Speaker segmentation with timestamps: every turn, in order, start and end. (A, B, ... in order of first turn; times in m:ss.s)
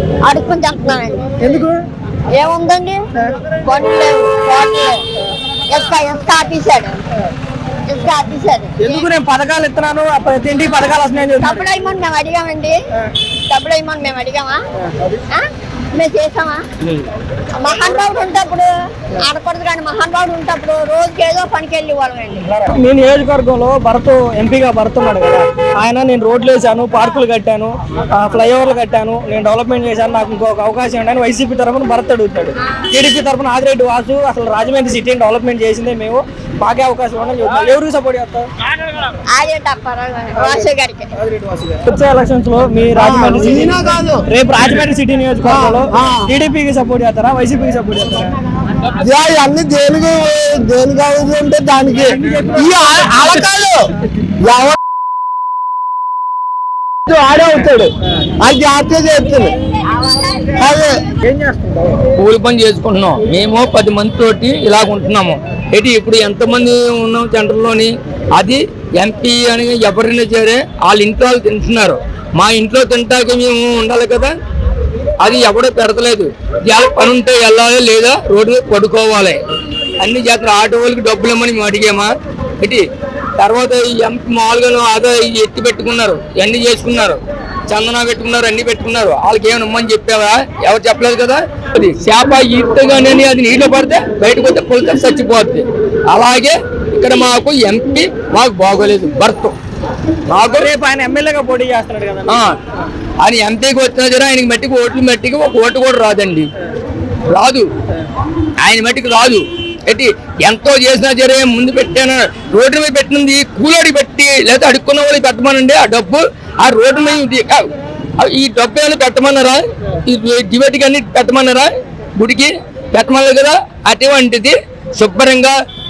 0:00.2-0:01.3 A
0:01.4-0:01.8 B
0:02.3-0:03.0 A
0:03.6-0:05.0 A
0:05.7-0:07.0 A
0:07.9-0:09.1 A
0:08.8-0:11.6 B
0:11.4-0:12.8 A
0:13.5-0:14.6 A
0:15.3-0:16.6 A
0:17.6-0:22.4 A
0:22.4-0:38.5 B
0:39.3-0:41.1 A
0:41.2-0:48.4 B
0:43.0-0:44.3 C
0:45.5-0:46.3 C
0:49.0-0:53.9 C
0:52.1-0:53.3 B
0:54.4-0:54.8 C
0:57.0-0:59.6 C
1:00.5-1:01.0 C
1:02.2-1:14.3 D
1:15.2-1:19.4 D
1:20.0-1:22.8 D
1:23.4-1:39.6 D
1:40.3-1:40.7 D
1:40.4-1:42.4 B
1:42.3-1:42.6 D
1:43.2-1:46.5 D
1:47.3-1:47.7 D
1:48.6-2:05.6 D